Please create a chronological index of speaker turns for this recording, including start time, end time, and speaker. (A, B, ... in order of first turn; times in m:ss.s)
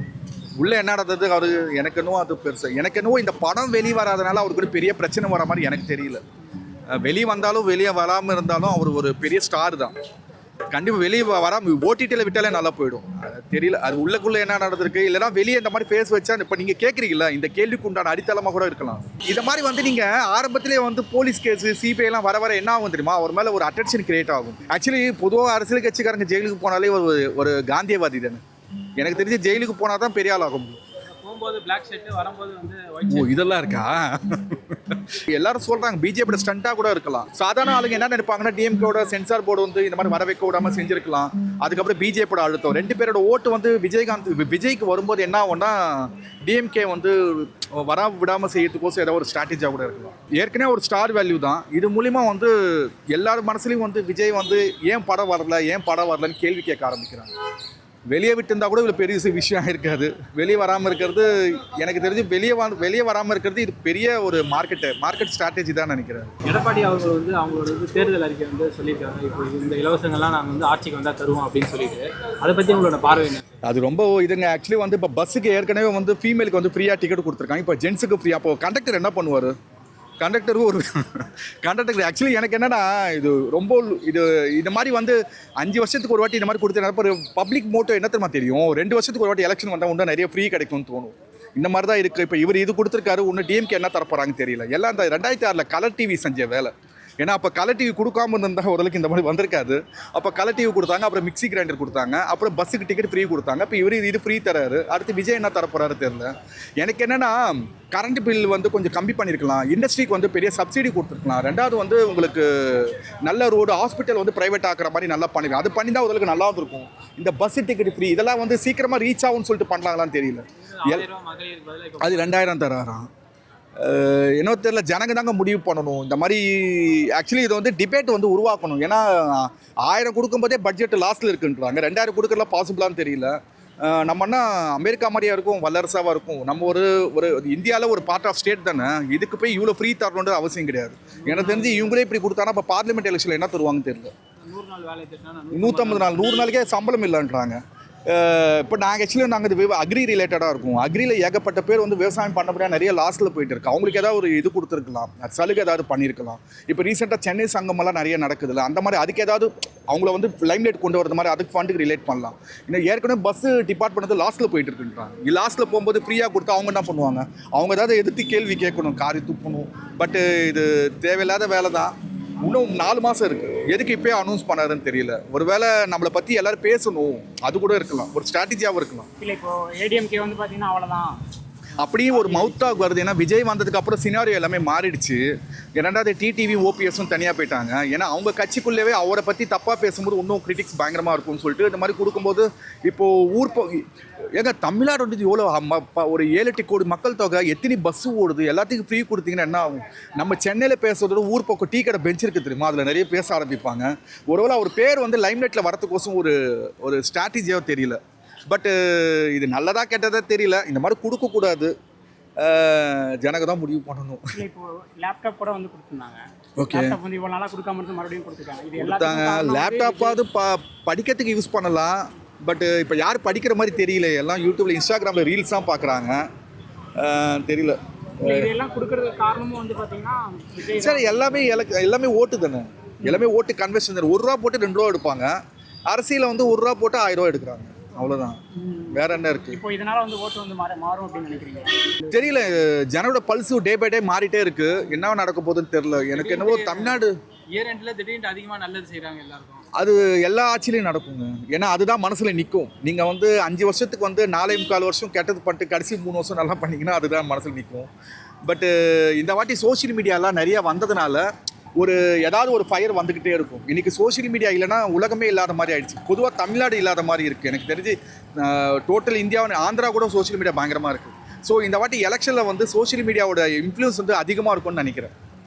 0:00.6-0:06.2 A
0:06.9-0:09.9 A
0:10.7-0:28.4 A
0:29.0-0:30.8 A
0:31.1-0:33.4 B
0:33.1-0:57.3 A
0:58.1-1:06.3 A
1:06.4-1:13.5 B
1:13.6-1:19.5 A
1:20.2-2:01.1 A
2:00.6-2:02.4 B
2:02.0-2:03.1 A
2:03.8-2:24.1 A
2:21.2-2:22.0 B
2:24.4-2:26.6 B
2:25.5-2:59.1 A
2:59.2-3:01.2 C
3:01.8-3:05.2 A
3:02.0-3:02.9 C
3:05.8-3:13.8 A
3:14.4-3:31.7 A
3:32.4-3:34.3 A
3:34.3-3:40.2 C
3:36.6-3:37.0 A
3:38.8-3:46.2 A
3:47.0-3:48.5 A
3:48.2-3:51.7 C
3:50.7-3:55.4 A
3:55.9-3:58.4 A
3:58.5-4:02.4 C
3:58.9-3:59.6 A
4:02.1-4:07.2 A
4:06.1-4:09.7 B
4:09.7-4:17.9 A
4:18.5-4:21.3 A
4:21.8-4:35.1 A